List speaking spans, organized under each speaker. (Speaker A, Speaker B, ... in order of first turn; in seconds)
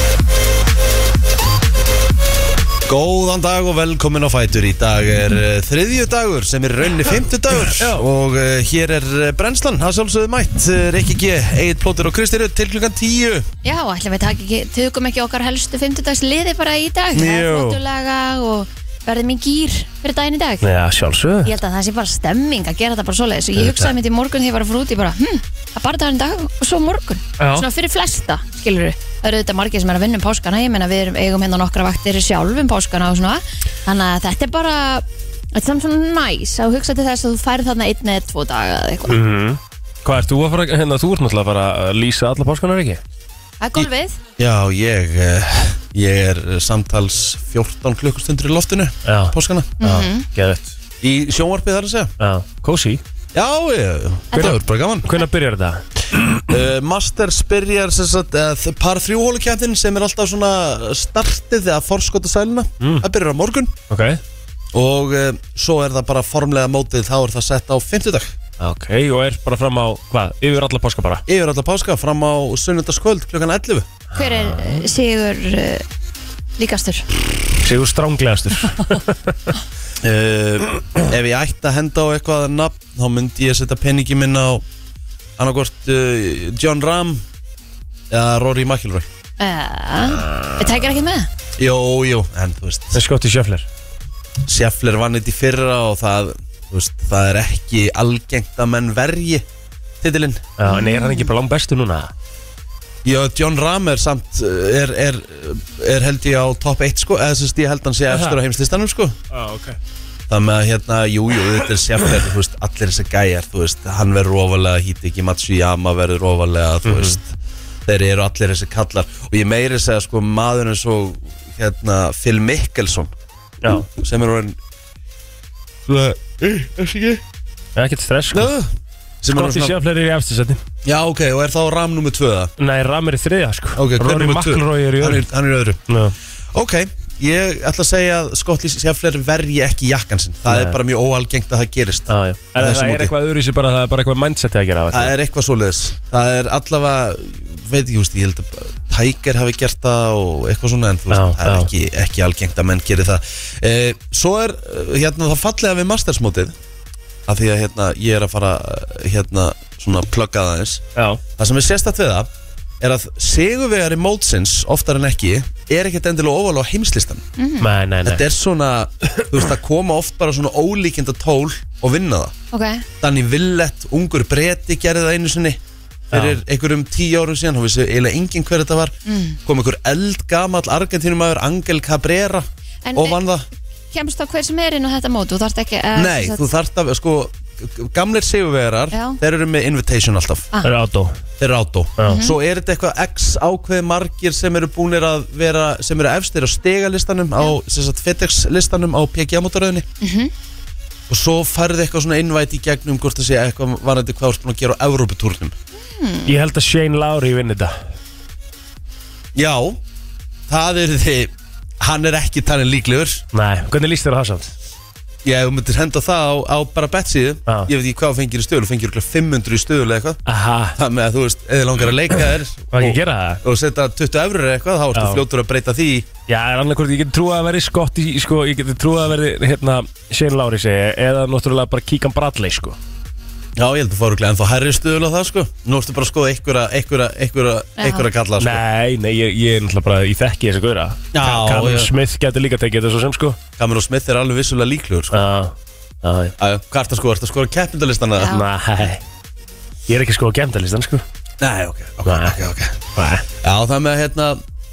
Speaker A: 2.9-13.5, 43.8-49.7, 51.0-52.1, 53.3-55.1, 56.5-63.7, 64.7-68.3, 71.3-73.9, 80.0-84.6, 85.4-87.2, 88.1-89.0, 91.6-93.0, 94.4-99.4, 100.0-100.5, 103.0-109.2, 110.3-117.3, 117.8-123.1, 123.7-124.6, 125.9-127.2, 128.3-129.8, 130.8-132.5, 133.8-135.8, 136.5-143.1, 144.9-156.5, 157.3-160.8, 161.4-162.3, 162.8-167.2, 168.0-172.3, 173.0-175.6, 176.1-178.9, 179.4-183.5, 185.9-190.5, 191.4-199.9, 201.1-205.6, 209.3-209.8, 210.5-213.2, 215.2-220.2, 220.8-226.1, 233.6-238.6, 241.1-241.9, 243.6-245.2, 246.4-248.3, 251.4-252.8, 253.4-254.4
Speaker B: 7.7-8.0, 17.1-17.8, 20.6-21.5, 23.6-23.9, 27.4-27.6, 39.1-43.0, 49.0-50.7, 52.2-53.0, 54.3-56.3, 63.9-64.2, 68.6-71.2, 74.1-74.8, 77.6-79.3, 92.9-93.7, 100.6-102.1, 108.1-108.4, 109.3-109.8, 116.8-117.2, 127.8-128.5, 129.3-130.6, 132.6-135.2, 135.9-136.1, 140.5-140.8, 142.1-145.1, 151.1-151.7, 160.9-161.2, 167.6-168.2, 176.1-176.4, 190.6-191.2, 192.0-192.2, 206.3-207.8, 213.3-214.5, 220.2-220.8, 222.7-223.4, 224.9-225.2, 226.3-232.8, 238.4-243.4, 245.1-246.3, 248.3-249.0, 249.9-251.0, 252.0-253.3
Speaker C: 13.6-20.6, 21.4-39.2, 43.6-44.2, 49.8-50.3, 74.2-75.8, 76.6-77.0, 89.4-91.3, 100.7-101.3, 167.4-167.7, 172.5-172.8, 179.1-179.4, 182.8-183.2, 183.9-186.5, 188.9-189.2, 192.0-192.3, 200.0-200.3, 205.8-206.3, 237.8-238.1, 248.2-248.4